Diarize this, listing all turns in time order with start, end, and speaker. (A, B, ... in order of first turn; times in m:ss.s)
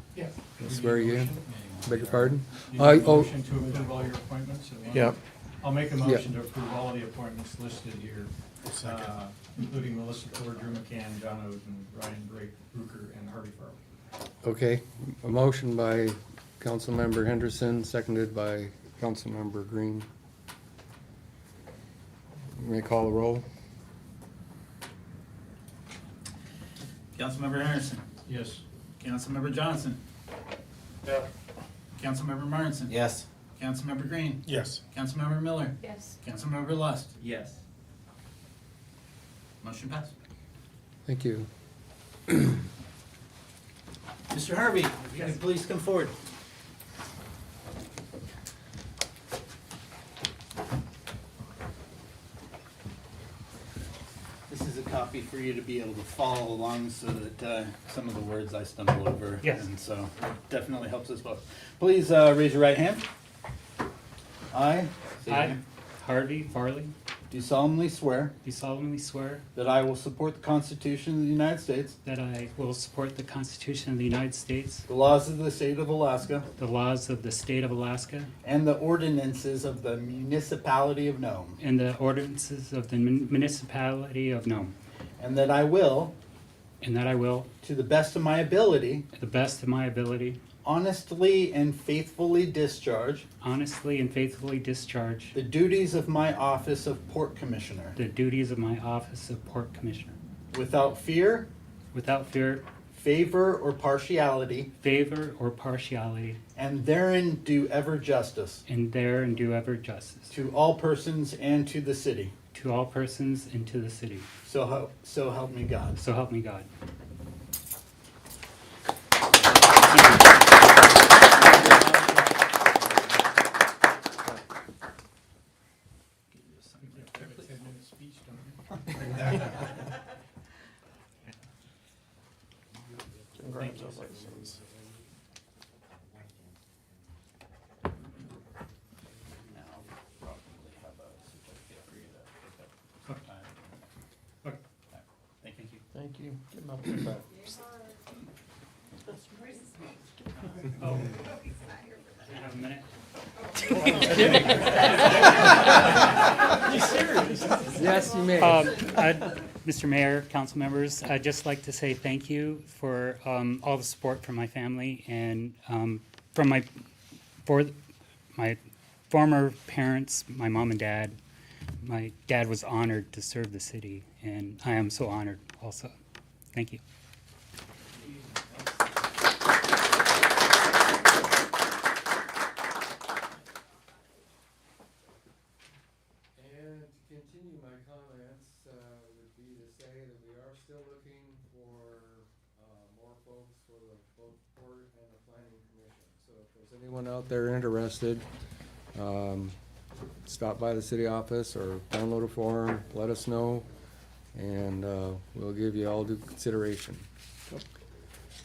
0:00.2-0:13.8 A
0:00.6-0:03.4 B
0:04.9-0:05.2 C
0:08.7-0:09.1 D
0:14.4-0:20.1 B
0:22.6-0:23.4 B
0:27.2-0:28.0 D
0:28.3-0:28.6 A
0:29.0-0:30.0 D
0:32.0-0:37.2 D
0:39.6-0:40.1 D
0:41.1-0:41.5 B
0:44.3-0:46.2 D
0:54.5-1:03.1 D
1:04.5-1:05.6 D
1:05.3-1:06.9 E
1:07.3-1:08.3 D
1:08.4-1:09.4 E
1:09.6-1:12.0 D
1:12.0-1:14.9 E
1:14.9-1:16.5 D
1:16.6-1:18.3 E
1:18.4-1:21.6 D
1:21.6-1:24.7 E
1:25.2-1:26.2 D
1:26.8-1:27.5 E
1:27.6-1:29.1 D
1:29.1-1:30.4 E
1:30.6-1:33.3 D
1:33.4-1:35.4 E
1:35.4-1:38.0 D
1:38.0-1:40.2 E
1:40.5-1:41.5 D
1:41.9-1:42.6 E
1:42.9-1:44.7 D
1:44.8-1:46.4 E
1:46.6-1:48.6 D
1:48.7-1:50.3 E
1:50.3-1:52.3 D
1:52.5-1:54.3 E
1:54.4-1:56.0 D
1:56.0-1:56.7 E
1:59.8-2:00.5 E
2:06.4-2:07.4 D
2:06.8-2:09.3 A
2:13.2-2:14.8 B
2:13.4-2:14.6 C
2:19.5-2:23.9 D
2:24.9-2:25.8 D
2:25.9-2:27.5 C
2:30.8-2:31.2 E
2:32.3-2:32.9 E
2:33.6-2:35.5 E
2:33.9-2:38.0 A
2:37.7-2:38.9 B
2:38.4-2:46.7 E
2:47.4-2:47.8 E
2:48.4-2:51.2 E
2:51.8-2:55.9 E
2:56.5-2:56.8 E
3:06.4-3:18.2 B
3:18.9-3:19.6 B
3:20.2-3:23.7 B
3:24.4-3:27.0 B